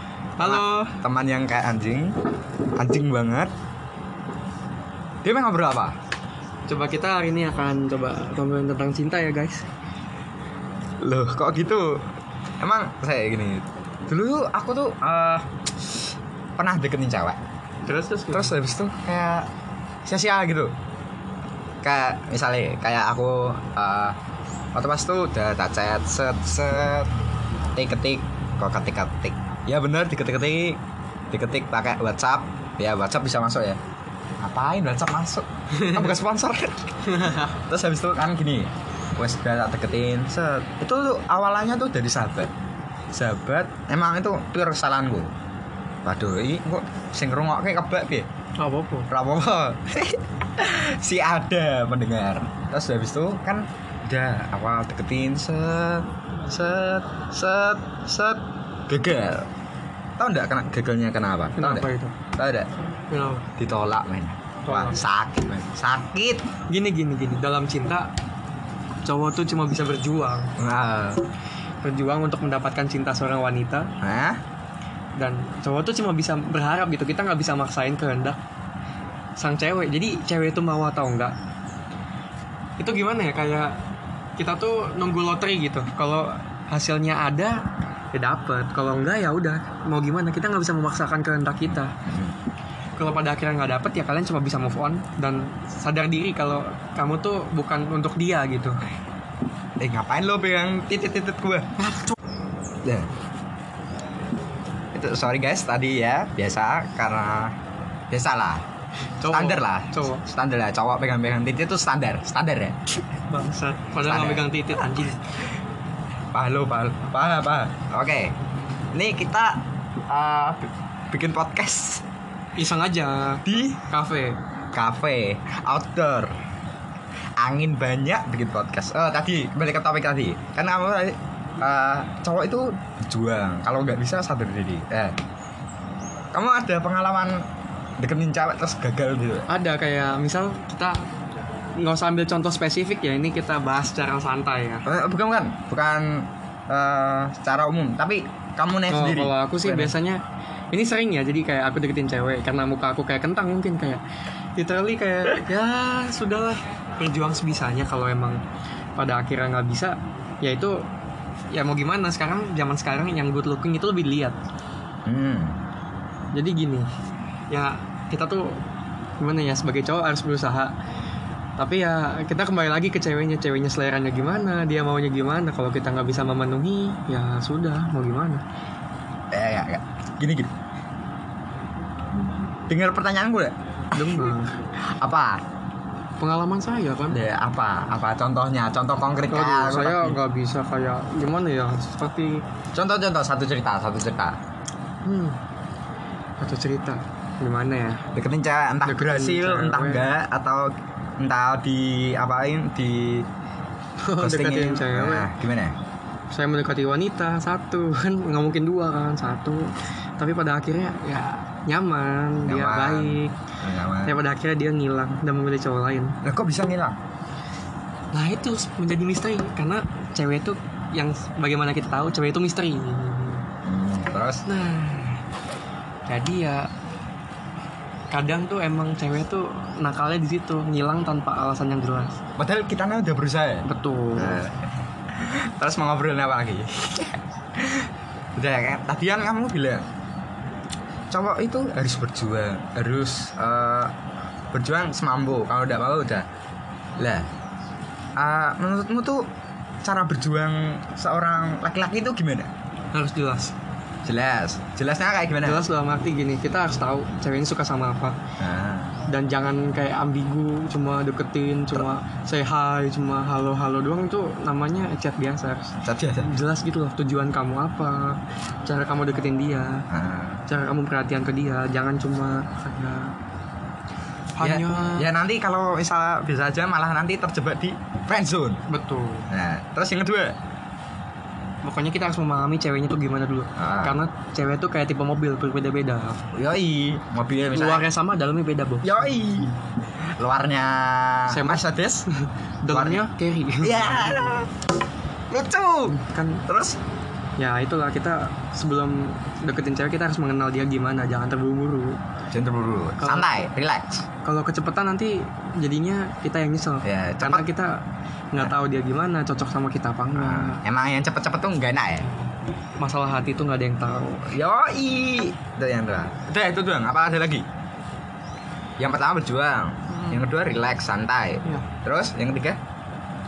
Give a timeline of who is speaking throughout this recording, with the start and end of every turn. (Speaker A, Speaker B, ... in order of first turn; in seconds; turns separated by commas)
Speaker A: 0.4-1.0, Speaker B: 0.4-2.1, Speaker B: 2.8-3.5, Speaker B: 5.2-5.9, Speaker A: 6.7-9.6, Speaker B: 11.0-12.0, Speaker B: 12.6-15.9, Speaker B: 16.6-17.4, Speaker A: 17.8-18.6, Speaker B: 18.3-19.4, Speaker B: 20.1-20.7, Speaker B: 21.8-24.1, Speaker B: 24.7-27.1, Speaker B: 27.7-30.8, Speaker B: 31.3-33.8, Speaker B: 34.4-42.5, Speaker A: 37.1-37.4, Speaker B: 43.1-45.3, Speaker B: 46.0-48.3, Speaker A: 48.6-49.1, Speaker B: 49.1-59.5, Speaker B: 60.2-62.7, Speaker A: 61.5-62.2, Speaker A: 63.1-63.5, Speaker B: 63.6-66.4, Speaker A: 64.6-65.0, Speaker A: 66.7-68.1, Speaker A: 69.0-70.5, Speaker B: 70.6-71.2, Speaker A: 71.8-73.9, Speaker B: 74.0-74.4, Speaker A: 75.2-78.4, Speaker A: 79.4-81.3, Speaker A: 82.8-83.7, Speaker A: 84.4-87.6, Speaker A: 88.1-92.0, Speaker B: 92.0-92.3, Speaker A: 93.0-98.8, Speaker B: 99.8-101.7, Speaker A: 101.8-102.1, Speaker B: 102.8-103.1, Speaker B: 104.9-107.5, Speaker B: 108.1-108.6, Speaker A: 109.2-110.2, Speaker B: 109.2-112.8, Speaker A: 113.3-115.2, Speaker B: 114.0-114.6, Speaker B: 116.3-118.3, Speaker B: 118.9-122.0, Speaker A: 122.5-124.4, Speaker B: 123.5-123.8, Speaker B: 124.7-126.3, Speaker B: 127.4-135.1, Speaker B: 136.3-137.4, Speaker B: 138.0-139.5, Speaker A: 139.5-141.0, Speaker A: 141.8-144.9, Speaker B: 144.8-149.9, Speaker A: 148.9-154.0, Speaker A: 154.6-158.4, Speaker A: 159.0-160.8, Speaker A: 161.5-164.3, Speaker B: 165.1-165.6, Speaker A: 166.3-166.9, Speaker A: 167.5-168.6, Speaker A: 169.2-170.7, Speaker A: 171.6-178.4, Speaker B: 179.3-180.5, Speaker B: 182.7-185.4, Speaker A: 183.9-184.6, Speaker A: 186.2-187.2, Speaker B: 187.1-190.2, Speaker A: 189.2-192.4, Speaker B: 192.7-194.4, Speaker A: 195.0-195.4, Speaker A: 196.4-198.1, Speaker B: 198.1-203.2, Speaker A: 198.8-200.1, Speaker A: 204.0-205.3, Speaker B: 204.2-205.7, Speaker A: 206.3-213.4, Speaker B: 212.4-214.2, Speaker A: 214.0-216.2, Speaker B: 216.2-216.9, Speaker A: 218.1-223.5, Speaker B: 223.6-224.4, Speaker A: 224.4-225.2, Speaker A: 226.1-226.7, Speaker A: 228.1-232.2, Speaker B: 232.4-233.6, Speaker A: 233.6-234.4, Speaker B: 234.2-234.6, Speaker B: 235.1-239.8, Speaker B: 241.1-243.9, Speaker B: 244.5-246.2, Speaker B: 247.0-247.2, Speaker B: 248.2-249.2, Speaker B: 249.8-252.5, Speaker A: 252.9-253.5, Speaker B: 254.0-255.6, Speaker A: 255.4-258.2, Speaker B: 258.4-258.9, Speaker A: 259.1-269.8, Speaker B: 265.8-266.3, Speaker B: 269.9-270.4, Speaker A: 270.5-273.1, Speaker A: 274.3-275.1, Speaker B: 274.4-278.6, Speaker A: 278.7-279.3, Speaker B: 279.3-280.3, Speaker A: 281.6-286.2, Speaker B: 283.6-284.0, Speaker B: 286.3-287.9, Speaker A: 287.5-289.1, Speaker B: 288.8-289.5, Speaker B: 290.2-292.0, Speaker A: 291.3-294.3, Speaker B: 292.7-293.0, Speaker B: 293.6-294.5, Speaker B: 295.3-296.8, Speaker A: 295.9-296.4, Speaker A: 297.4-302.0, Speaker B: 302.3-304.1, Speaker A: 303.0-303.4, Speaker A: 304.2-310.6, Speaker B: 306.8-307.5, Speaker B: 310.2-312.1, Speaker A: 312.8-314.3, Speaker B: 314.3-317.4, Speaker B: 318.8-322.6, Speaker A: 319.9-320.2